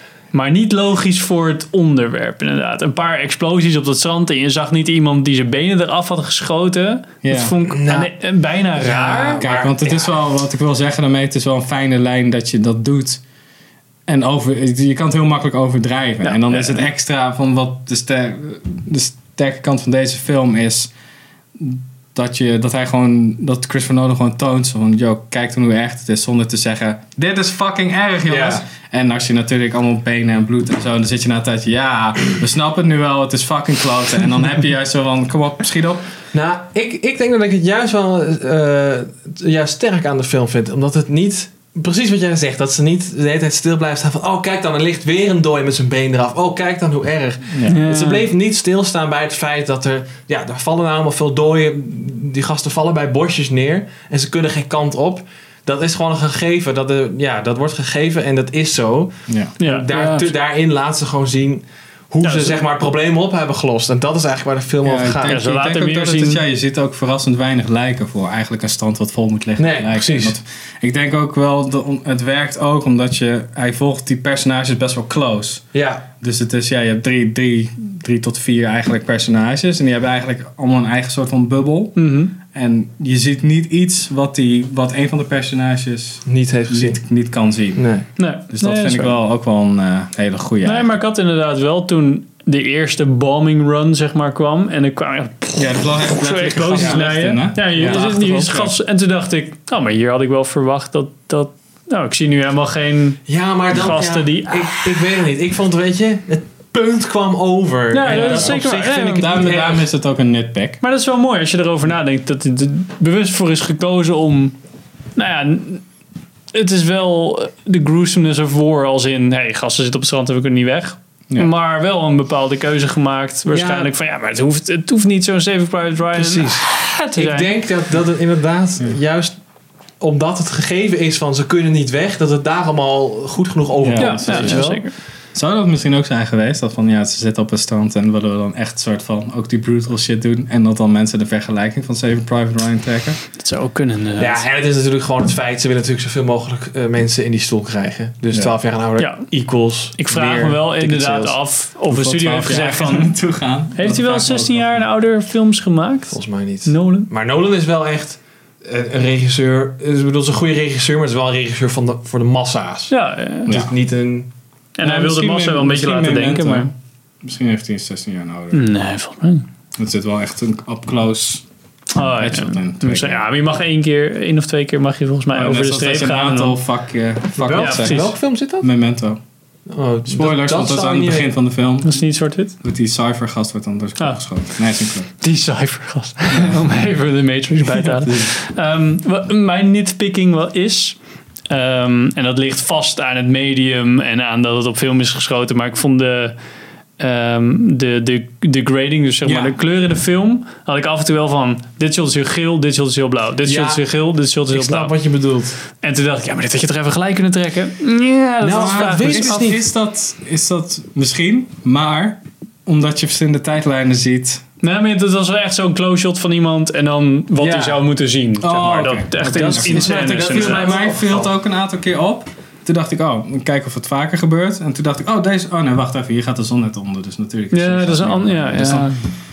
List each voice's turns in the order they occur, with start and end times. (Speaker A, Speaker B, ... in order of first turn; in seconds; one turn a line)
Speaker A: 0.3-9.4
Speaker B: 7.2-7.6
Speaker C: 7.7-8.2
Speaker C: 8.7-10.2
Speaker B: 9.4-13.2
Speaker B: 14.1-20.9
Speaker A: 16.2-16.9
Speaker B: 21.6-36.0
Speaker C: 28.3-28.6
Speaker C: 36.3-65.4
Speaker B: 47.5-47.8
Speaker A: 47.6-48.3
Speaker B: 59.3-59.5
Speaker A: 59.6-60.3
Speaker A: 62.2-62.6
Speaker B: 64.8-75.6
Speaker A: 65.3-66.4
Speaker C: 69.6-70.4
Speaker C: 75.7-76.0
Speaker B: 76.2-87.9
Speaker A: 82.0-82.3
Speaker C: 86.3-87.0
Speaker C: 87.8-88.1
Speaker A: 88.2-89.2
Speaker B: 88.5-90.9
Speaker A: 90.6-103.2
Speaker B: 95.6-98.8
Speaker C: 96.8-97.0
Speaker C: 97.8-98.1
Speaker C: 103.3-109.9
Speaker A: 103.7-105.0
Speaker A: 107.9-109.2
Speaker B: 108.1-110.8
Speaker A: 110.8-114.6
Speaker A: 115.2-115.8
Speaker A: 116.5-127.5
Speaker C: 123.5-123.9
Speaker C: 126.1-129.3
Speaker C: 130.0-134.8
Speaker B: 133.8-134.7
Speaker A: 134.0-134.9
Speaker B: 135.3-143.2
Speaker A: 143.4-144.4
Speaker C: 144.2-151.4
Speaker A: 149.0-149.3
Speaker A: 150.0-153.2
Speaker B: 151.9-154.9
Speaker A: 153.7-157.1
Speaker C: 156.1-162.9
Speaker A: 162.9-163.6
Speaker C: 163.4-164.3
Speaker B: 163.5-163.7
Speaker A: 164.8-166.7
Speaker B: 164.8-166.7
Speaker B: 167.2-168.7
Speaker A: 168.5-169.4
Speaker B: 169.8-171.4
Speaker A: 171.9-176.6
Speaker B: 172.0-173.2
Speaker B: 175.3-179.2
Speaker C: 177.4-178.7
Speaker A: 177.5-178.1
Speaker C: 179.7-181.3
Speaker B: 180.1-182.0
Speaker A: 181.8-182.5
Speaker B: 182.6-185.1
Speaker A: 185.1-191.0
Speaker B: 186.3-186.6
Speaker B: 187.8-188.3
Speaker A: 191.5-196.4
Speaker A: 197.0-204.9
Speaker B: 199.2-199.6
Speaker C: 203.4-203.9
Speaker C: 204.5-205.6
Speaker A: 205.8-209.5
Speaker C: 208.4-209.7
Speaker B: 208.5-214.4
Speaker A: 214.6-220.8
Speaker C: 217.4-217.8
Speaker B: 218.4-228.9
Speaker C: 219.2-221.3
Speaker A: 227.5-229.1